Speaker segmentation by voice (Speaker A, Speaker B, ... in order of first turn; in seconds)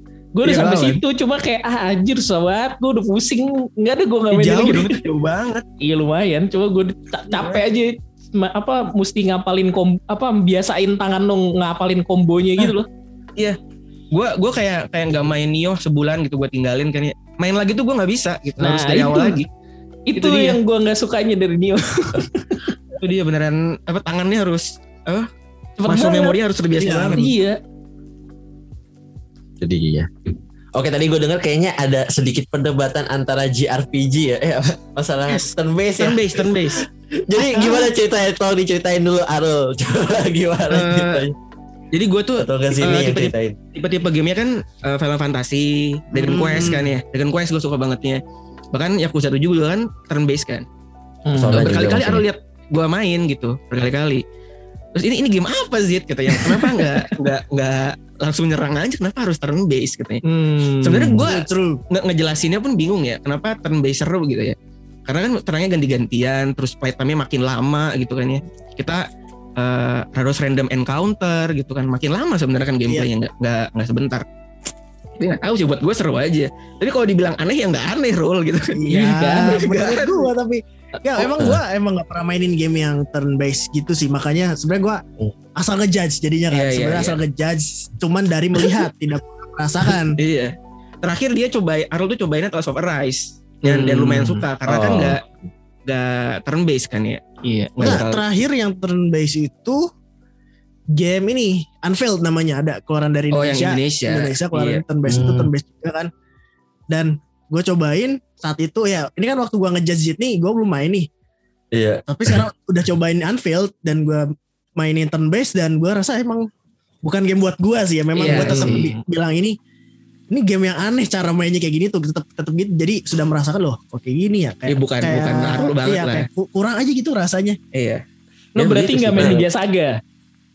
Speaker A: 0.4-5.0, 5.8-12.9, 18.6-19.4, 20.1-22.8, 25.8-27.6, 51.3-51.8, 56.3-57.1, 60.2-61.3, 79.2-79.7, 93.7-94.4, 97.4-97.8, 118.2-119.0, 128.6-129.9
Speaker B: 0.4-1.0, 4.3-5.6, 7.3-7.6, 14.1-19.5, 20.1-20.6, 23.0-25.3, 25.9-27.3, 35.3-36.9, 40.7-41.3, 41.9-48.2, 48.7-50.6, 51.5-54.2, 55.0-60.2, 60.8-74.2, 75.2-80.3, 81.2-81.5, 86.5-87.2, 90.2-95.2, 95.9-97.2, 97.8-98.2, 103.3-104.8, 118.2-118.9, 124.7-126.3, 127.7-128.0, 128.6-129.4
Speaker C: 26.8-27.2, 46.1-46.9, 61.2-61.8, 78.7-85.0, 85.6-90.2, 97.8-99.9, 100.9-106.1, 106.9-111.1, 112.1-116.5, 117.0-119.6, 120.3-127.6
Speaker D: 29.6-36.5, 37.2-41.4, 42.4-43.6, 51.3-52.2, 94.7-95.2, 105.1-105.5, 111.7-112.5